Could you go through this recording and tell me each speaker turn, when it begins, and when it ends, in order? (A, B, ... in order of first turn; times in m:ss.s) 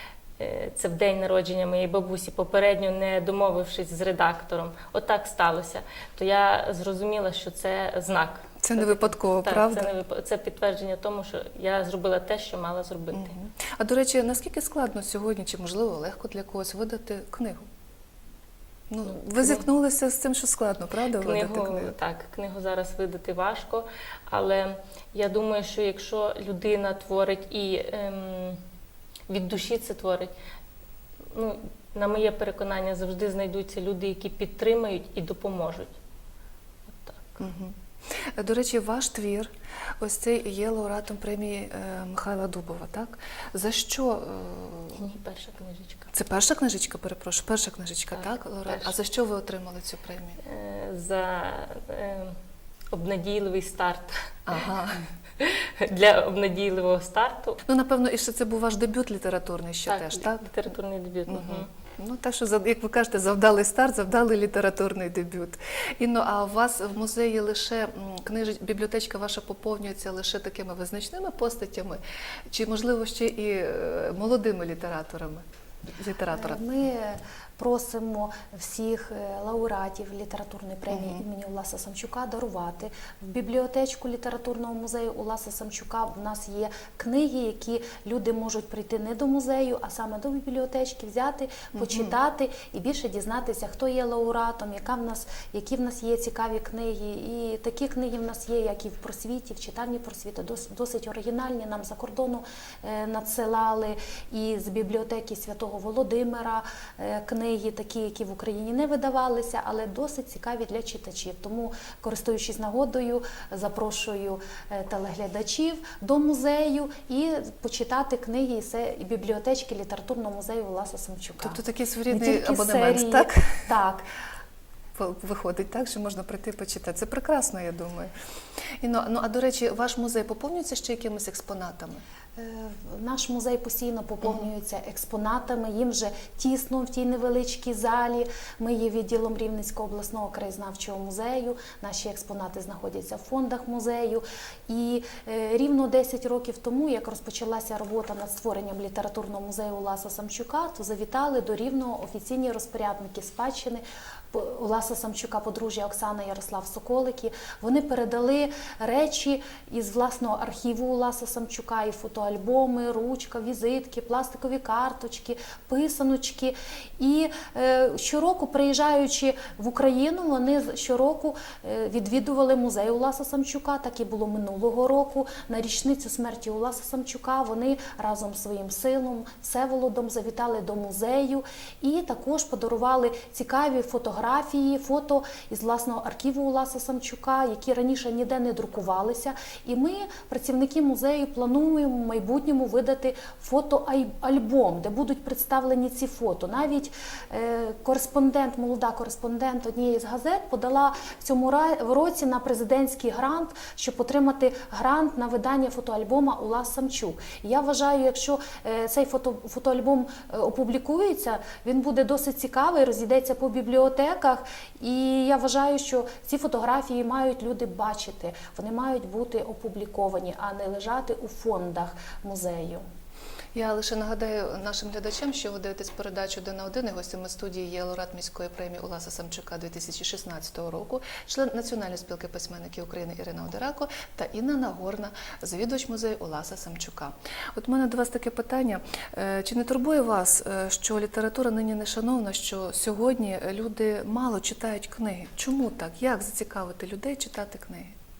0:00.4-0:13.3 A
0:08.6-0:09.9 B
0:13.1-0:17.6 B
0:18.9-0:22.0 B
0:19.4-0:19.6 A
0:21.2-0:28.6 A
0:29.3-0:30.3 A
0:31.3-0:35.9 A
0:36.9-0:37.4 A
0:37.4-0:45.0 B
0:44.9-0:46.1 A
0:46.1-0:50.4 B
0:48.2-0:48.9 A
0:50.4-0:52.4 A
0:52.9-0:54.1 A
0:54.5-0:55.1 B
0:55.4-0:57.6 A
0:57.6-1:00.5 B
0:59.9-1:01.7 A
1:01.3-1:15.4 B
1:16.0-1:16.6 B
1:16.3-2:04.1 C
1:20.9-1:21.2 B
1:31.7-1:32.1 B
2:01.4-2:03.7 B
2:05.0-2:08.1 B
2:08.8-2:12.0 B
2:12.4-3:42.8 C
3:43.5-4:08.0 B